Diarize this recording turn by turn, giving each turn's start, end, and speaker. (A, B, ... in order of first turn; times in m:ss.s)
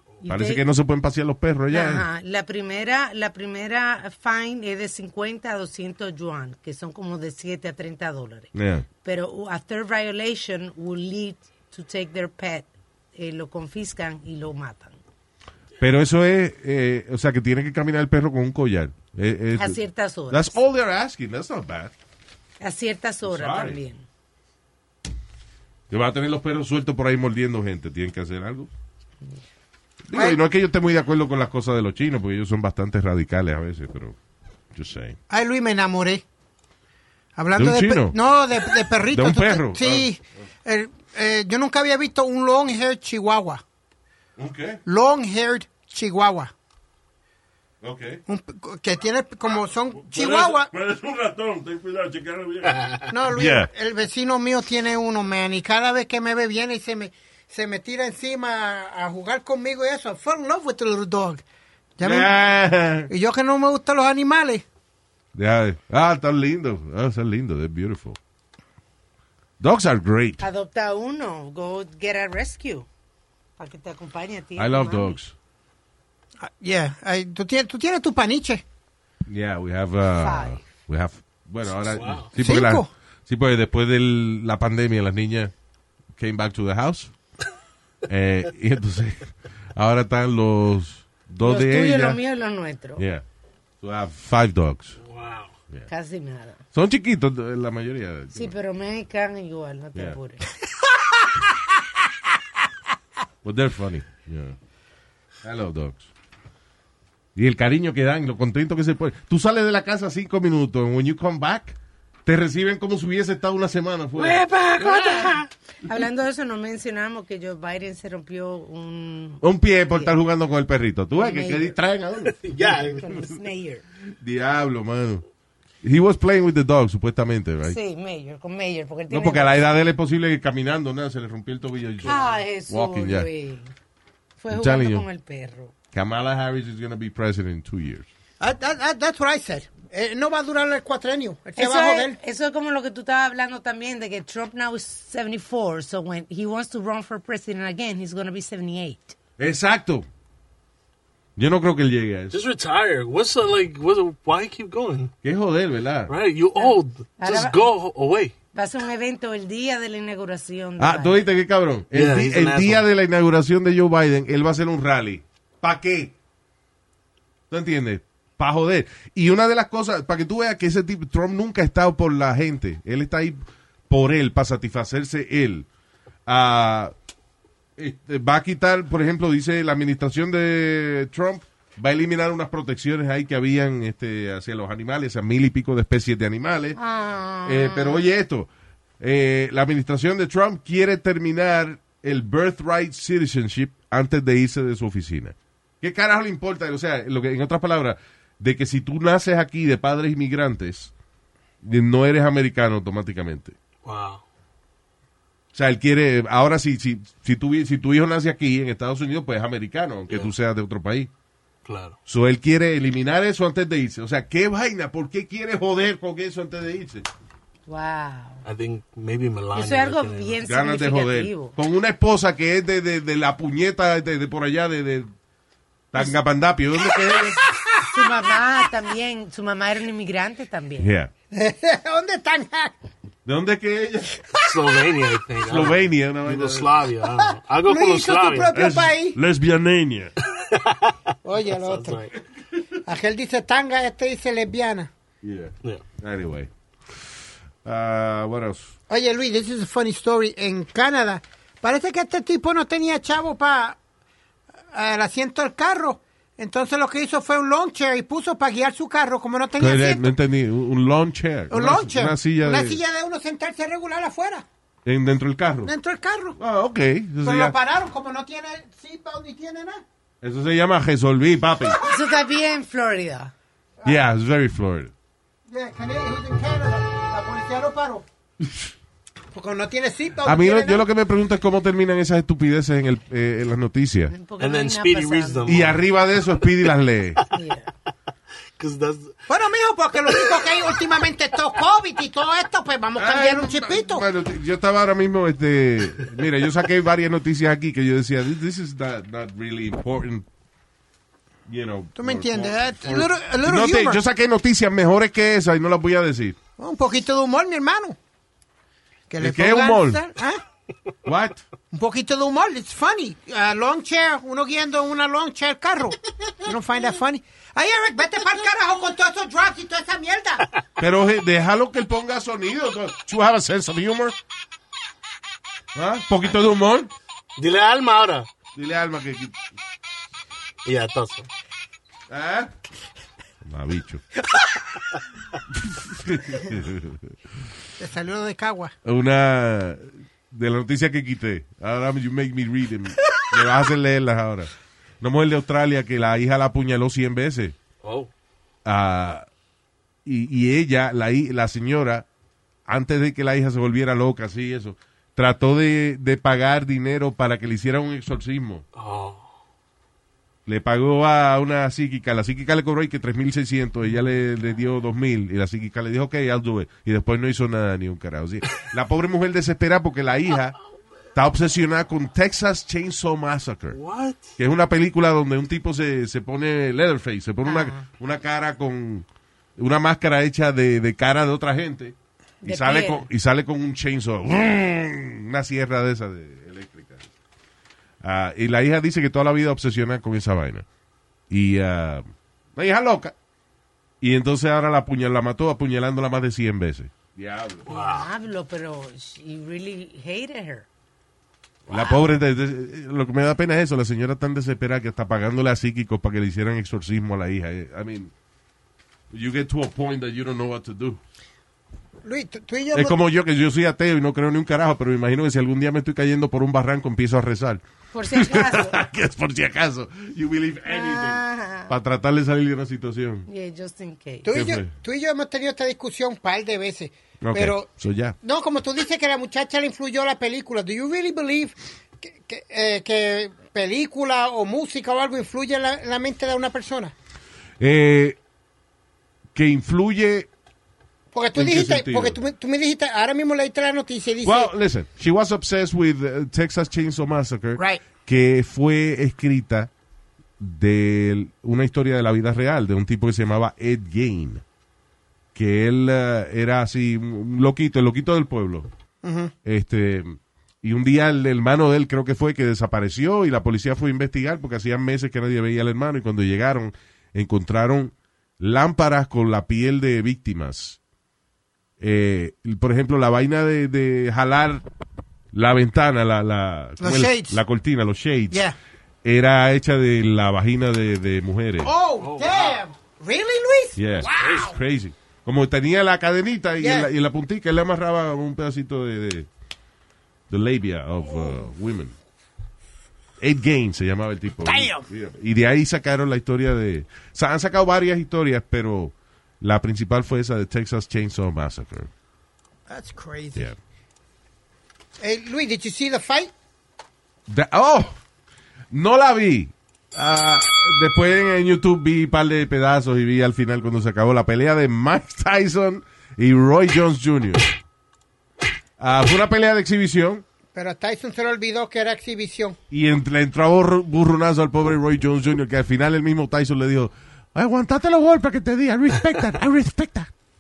0:00.2-0:00.6 A
0:00.3-0:02.1 B
0:01.7-0:08.5 A
0:08.5-0:08.8 B
0:09.0-0:15.0 A
0:15.8-0:21.9 B
0:19.6-0:20.6 A
0:22.6-0:24.0 A
0:23.2-0:23.8 B
0:25.9-0:28.7 B
0:30.0-0:34.2 B
0:30.1-0:30.4 C
0:34.7-0:35.2 B
0:35.3-0:36.2 C
0:37.4-0:43.6 C
0:37.5-0:38.2 B
0:39.1-0:40.1 B
0:44.4-0:44.8 B
0:44.8-0:46.5 C
0:47.8-0:48.2 B
0:48.3-0:50.7 C
0:50.0-0:53.0 D
0:52.7-0:53.0 E
0:53.1-1:01.4 C
0:53.3-0:53.7 B
1:02.0-1:02.3 C
1:02.0-1:03.1 B
1:03.1-1:04.6 C
1:05.3-1:08.2 B
1:09.6-1:10.4 B
1:10.4-1:12.9 A
1:13.6-1:15.2 A
1:14.6-1:15.4 B
1:16.4-1:18.6 C
1:19.3-1:25.5 B
1:20.2-1:20.7 A
1:21.8-1:22.3 E
1:22.4-1:22.9 C
1:26.2-1:27.1 B
1:28.1-1:32.2 B
1:31.4-1:33.0 A
1:33.0-1:33.2 B
1:33.8-1:35.0 B
1:35.0-1:35.6 E
1:35.9-1:36.6 A
1:36.7-1:38.6 B
1:38.3-1:40.4 A
1:43.4-1:44.6 B
1:45.4-1:46.1 B
1:47.4-1:54.5 B
1:54.2-1:55.5 E
1:54.8-2:00.2 A
1:59.4-2:02.4 B
2:01.2-2:01.7 A
2:02.3-2:03.1 E
2:02.6-2:03.8 A
2:04.2-2:05.2 B
2:05.8-2:07.8 B
2:07.7-2:09.8 A
2:09.1-2:13.3 B
2:12.0-2:13.7 A
2:14.4-2:15.7 A
2:14.5-2:15.1 B
2:15.9-2:18.1 B
2:18.4-2:22.2 C
2:21.6-2:29.2 A
2:29.4-2:30.1 B
2:31.4-2:32.4 B
2:32.3-2:35.1 E
2:35.2-2:36.1 B
2:36.1-2:38.4 E
2:36.6-2:37.6 A
2:38.5-2:41.2 A
2:40.8-2:46.1 B
2:41.9-2:42.8 E
2:47.5-2:55.7 B
2:56.3-2:56.9 B
2:57.8-3:06.8 B
3:06.8-3:08.0 A
3:07.4-3:08.5 B
3:09.0-3:20.9 B
3:21.6-3:23.6 B
3:23.8-3:24.2 E
3:25.5-3:31.1 B
3:31.6-3:32.0 E
3:32.1-3:37.1 B
3:37.7-3:38.4 A
3:38.4-3:40.4 E
3:39.5-3:41.6 A
3:40.4-3:45.1 B
3:45.9-3:47.4 B
3:46.9-3:47.9 C
3:47.9-3:50.9 A
3:50.8-3:51.1 B
3:51.3-3:52.7 C
3:53.2-3:54.2 B
3:54.4-3:58.5 E
3:55.4-3:56.8 B
3:57.2-3:59.2 C
3:58.5-4:00.1 D
4:00.5-4:01.0 E
4:01.2-4:02.1 C
4:01.5-4:02.1 E
4:02.8-4:04.9 C
4:05.2-4:08.8 B
4:08.9-4:13.8 C
4:14.7-4:20.1 C
4:19.6-4:22.8 B
4:21.5-4:24.4 C
4:24.8-4:25.7 B
4:25.6-4:26.4 C
4:26.4-4:27.6 B
4:27.2-4:29.8 C
4:30.2-4:31.8 B
4:31.9-4:33.3 A
4:33.8-4:34.9 B
4:35.5-4:38.0 C
4:38.4-4:38.7 B
4:39.3-4:40.8 C
4:40.2-4:44.1 B
4:44.1-4:45.6 A
4:44.4-4:45.8 E
4:45.5-4:47.2 B
4:47.3-4:47.7 A
4:48.6-4:49.2 E
4:49.3-4:54.1 C
4:53.0-5:00.3 B
5:01.5-5:06.4 B
5:02.0-5:04.0 C
5:06.6-5:08.0 C
5:09.1-5:10.4 C
5:09.2-5:10.0 B
5:11.0-5:11.4 B
5:11.7-5:20.5 C
5:20.8-5:24.2 B
5:25.7-5:26.9 B
5:27.4-5:28.3 E
5:28.6-5:29.4 B
5:30.6-5:31.3 E
5:32.1-5:32.5 B
5:33.4-5:34.0 B
5:35.5-5:37.0 B
5:37.8-5:38.7 C
5:38.8-5:47.6 B
5:47.8-5:48.1 E
5:48.6-5:49.3 B
5:50.0-5:52.1 B
5:52.7-5:58.6 B
5:58.8-5:59.3 E
6:00.5-6:10.6 B
6:11.1-6:13.8 B
6:13.7-6:14.4 E
6:14.4-6:19.1 B
6:17.4-6:17.8 A
6:19.6-6:27.1 B
6:22.4-6:23.1 A
6:28.0-6:30.6 B
6:31.3-6:33.1 B
6:34.0-6:37.7 B
6:37.7-6:38.1 E
6:37.7-6:40.7 A
6:41.7-6:48.1 B
6:41.7-6:42.0 A
6:49.1-6:51.0 B
6:52.0-6:53.0 C
6:52.7-7:03.3 B
6:57.9-6:58.8 A
7:00.7-7:01.7 A
7:03.3-7:04.3 A
7:04.2-7:07.7 C
7:04.3-7:04.8 B
7:07.2-7:08.2 B
7:08.2-7:16.9 C
7:17.6-7:18.2 B
7:19.4-7:20.3 B
7:21.1-7:24.5 C
7:21.3-7:22.2 B
7:24.2-7:29.7 B
7:27.6-7:27.8 C
7:30.4-7:34.4 B
7:35.4-7:38.7 B
7:39.0-7:39.3 C
7:39.4-7:50.8 B
7:51.8-7:54.6 B
7:55.3-7:58.4 B
7:56.8-7:57.4 C
7:58.3-7:58.6 C
7:59.0-8:01.7 B
8:01.6-8:04.5 C
8:02.0-8:02.6 E
8:03.8-8:09.3 B
8:04.0-8:04.5 E
8:06.6-8:06.9 C
8:10.3-8:12.0 B
8:13.2-8:21.9 B
8:14.4-8:14.8 C
8:22.7-8:23.5 C
8:25.0-8:26.3 C
8:27.3-8:28.0 B
8:28.7-8:37.5 B
8:38.8-8:40.2 B
8:40.5-8:42.6 C
8:42.7-8:50.1 B